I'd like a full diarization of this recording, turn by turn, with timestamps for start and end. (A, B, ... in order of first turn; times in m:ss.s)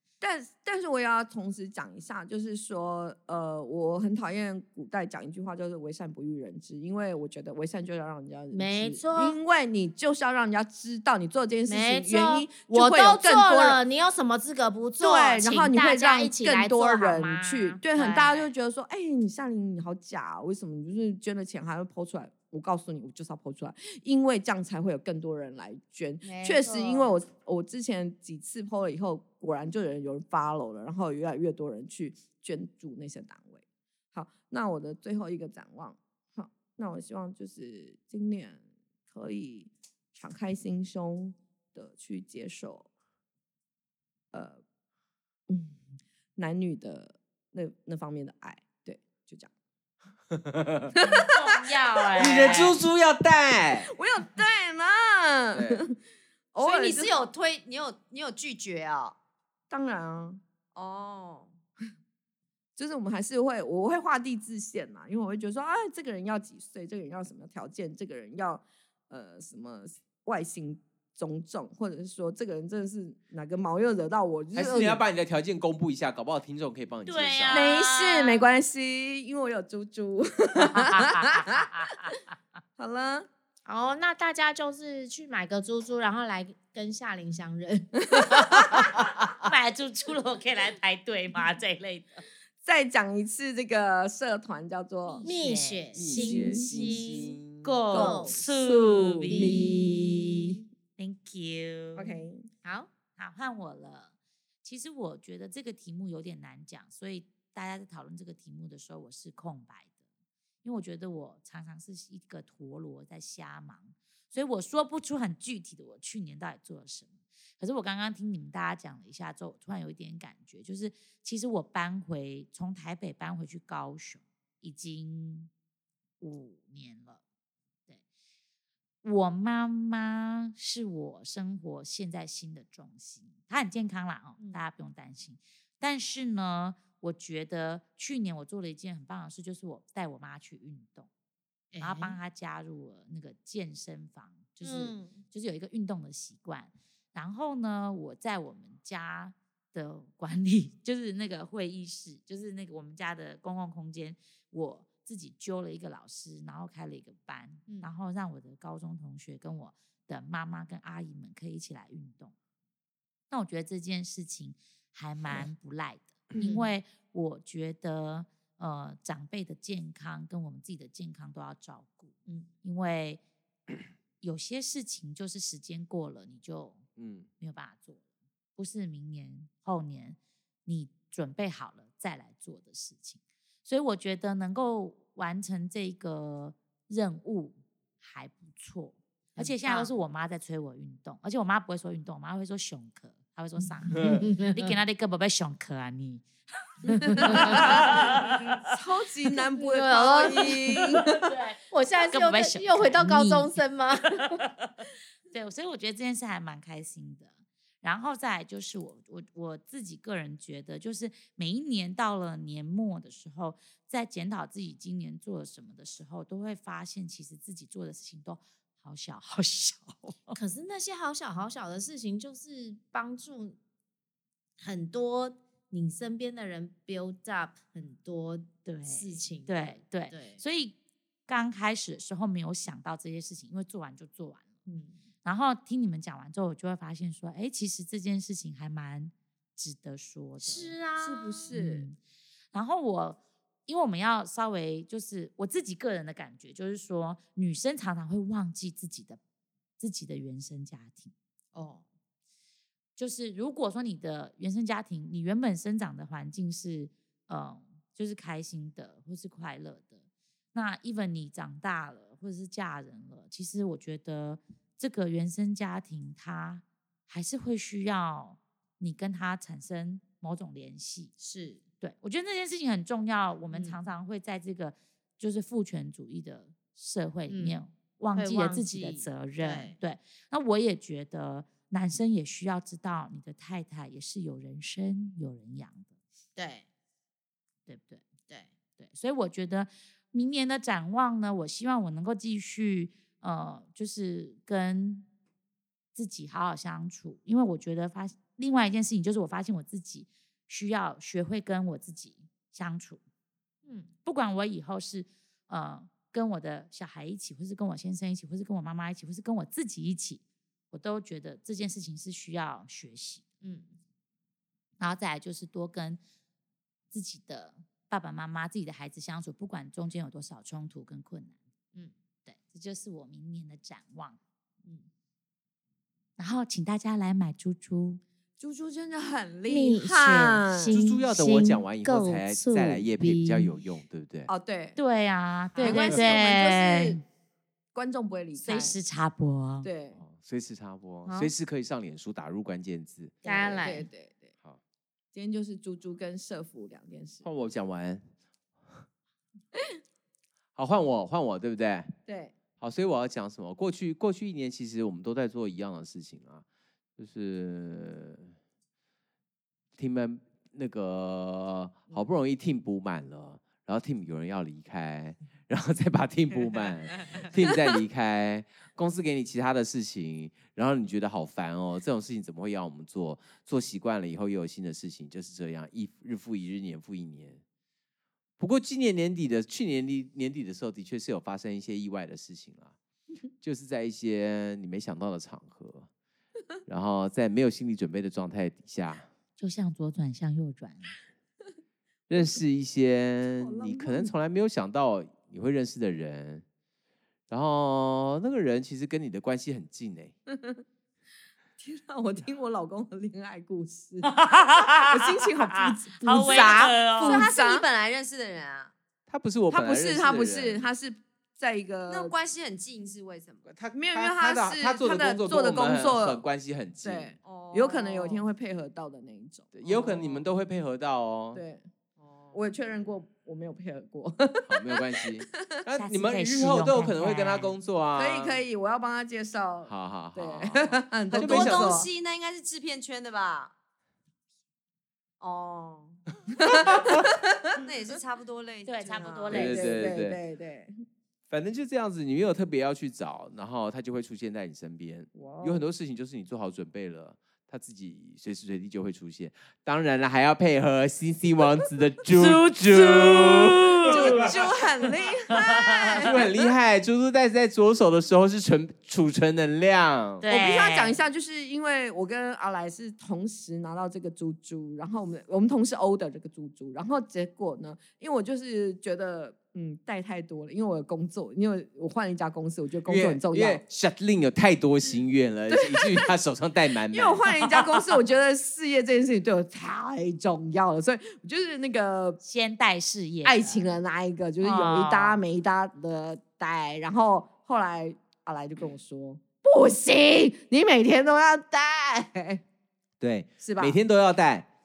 0:00.2-0:13.8 A
0:08.5-0:09.4 B
0:11.7-0:17.8 B
0:15.0-0:42.9 A
0:17.9-0:18.3 C
0:26.2-0:27.1 D
0:44.3-0:44.6 A
0:45.5-0:45.8 A
0:46.4-0:49.5 A
0:50.3-0:50.9 E
0:50.9-0:52.3 A
0:51.0-0:52.8 C
0:52.2-0:53.9 E
0:53.8-0:55.9 A
0:55.5-0:55.8 E
0:56.5-0:57.2 A
0:56.6-0:59.1 D
0:59.7-1:00.4 A
1:00.7-1:01.5 D
1:02.8-1:15.0 A
1:14.5-1:17.6 E
1:17.0-1:18.4 C
1:17.5-1:21.7 A
1:20.6-1:22.2 C
1:22.8-1:23.3 A
1:23.6-1:28.6 B
1:28.1-1:28.9 A
1:28.5-1:32.2 C
1:32.6-1:35.3 A
1:35.0-1:35.9 C
1:35.2-1:37.3 B
1:35.9-1:37.8 E
1:36.0-1:37.1 A
1:37.6-1:39.7 C
1:37.8-1:38.4 B
1:37.9-1:40.6 A
1:39.3-1:40.1 B
1:41.0-1:42.1 C
1:41.9-1:42.4 A
1:42.6-1:42.9 B
1:43.2-1:44.1 C
1:44.6-1:49.9 C
1:50.6-2:05.5 C
2:06.2-2:07.2 C
2:09.0-2:21.1 C
2:21.7-2:22.2 B
2:21.8-2:42.3 C
2:24.6-2:25.2 B
2:43.3-2:53.2 C
2:46.4-2:46.7 B
2:54.2-2:56.9 C
2:57.0-2:57.3 E
2:57.4-2:58.0 C
2:58.6-3:16.2 C
3:09.4-3:09.9 B
3:13.9-3:14.8 B
3:13.9-3:14.2 E
3:16.9-3:18.2 B
3:17.1-3:18.1 A
3:17.2-3:18.6 C
3:18.7-3:21.2 A
3:19.6-3:21.2 B
3:21.1-3:23.6 C
3:21.7-3:24.4 B
3:24.1-3:40.4 C
3:40.3-3:43.6 B
3:44.6-3:50.4 B
3:48.6-3:50.8 C
3:51.3-3:54.6 C
3:54.6-3:55.0 B
3:55.2-4:00.7 C
4:00.4-4:01.5 B
4:01.0-4:01.8 A
4:01.5-4:02.0 C
4:02.5-4:09.2 C
4:09.8-4:11.1 C
4:11.5-4:11.8 B
4:13.0-4:20.0 C
4:20.5-4:31.1 C
4:31.2-4:31.6 B
4:31.8-4:45.9 C
4:33.5-4:33.8 B
4:37.3-4:37.6 B
4:38.2-4:39.8 B
4:46.4-4:46.6 B
4:47.7-4:48.0 C
4:48.8-4:55.0 C
4:55.9-5:03.0 C
5:03.6-5:03.9 B
5:04.0-5:13.2 C
5:13.4-5:13.8 B
5:14.8-5:16.0 C
5:16.9-5:21.4 C
5:22.3-5:24.2 C
5:26.2-5:28.0 C
5:28.4-5:30.7 A
5:29.5-5:33.6 B
5:30.7-5:34.3 E
5:34.3-5:34.8 A
5:34.8-5:37.0 C
5:35.5-5:35.9 B
5:35.6-5:37.0 A
5:37.7-5:38.8 A
5:38.4-5:39.7 C
5:39.6-5:40.0 A
5:40.0-5:43.2 E
5:41.0-5:41.3 B
5:43.2-5:43.9 B
5:43.2-5:44.3 A
5:45.1-5:47.2 A
5:47.2-5:48.1 E
5:50.6-5:52.0 E
5:52.1-5:52.3 A
5:52.6-5:56.4 E
5:57.0-5:58.3 E
5:59.8-6:17.4 E
6:18.4-6:22.7 E
6:23.4-6:25.9 E
6:26.6-6:29.1 E
6:29.4-6:31.0 C
6:32.1-6:36.4 E
6:33.4-6:34.1 A
6:37.3-6:40.1 E
6:40.3-6:40.6 A
6:41.6-6:44.2 A
6:44.0-6:47.3 C
6:44.8-6:47.6 A
6:46.1-6:48.7 D
6:49.1-6:50.6 E
6:49.5-6:52.1 A
6:51.9-6:53.4 D
6:53.4-6:57.2 E
6:53.7-6:56.2 A
6:56.8-7:00.2 A
6:57.2-6:58.2 D
6:59.5-7:01.4 E
7:01.3-7:01.6 A
7:02.0-7:02.4 D
7:02.3-7:05.1 A
7:04.4-7:08.4 E
7:05.8-7:07.6 C
7:07.9-7:11.9 A
7:09.6-7:11.8 E
7:11.1-7:13.5 D
7:15.2-7:16.0 D
7:16.4-7:17.5 A
7:16.4-7:17.1 E
7:16.6-7:16.9 D
7:17.5-7:19.4 D
7:18.6-7:19.7 C
7:19.0-7:20.7 A
7:19.3-7:20.2 E
7:21.3-7:34.4 E
7:25.1-7:25.7 A
7:32.1-7:34.3 C
7:33.8-7:36.5 A
7:34.1-7:34.6 D
7:35.5-7:35.9 C
7:36.0-7:40.3 E
7:40.2-7:41.0 C
7:40.3-7:53.6 A
7:52.8-7:57.2 E
7:55.5-7:56.0 A
7:56.9-8:02.2 A
8:02.2-8:03.7 C
8:03.2-8:12.4 A
8:04.4-8:05.2 C
8:13.0-8:14.4 E
8:13.4-8:13.8 A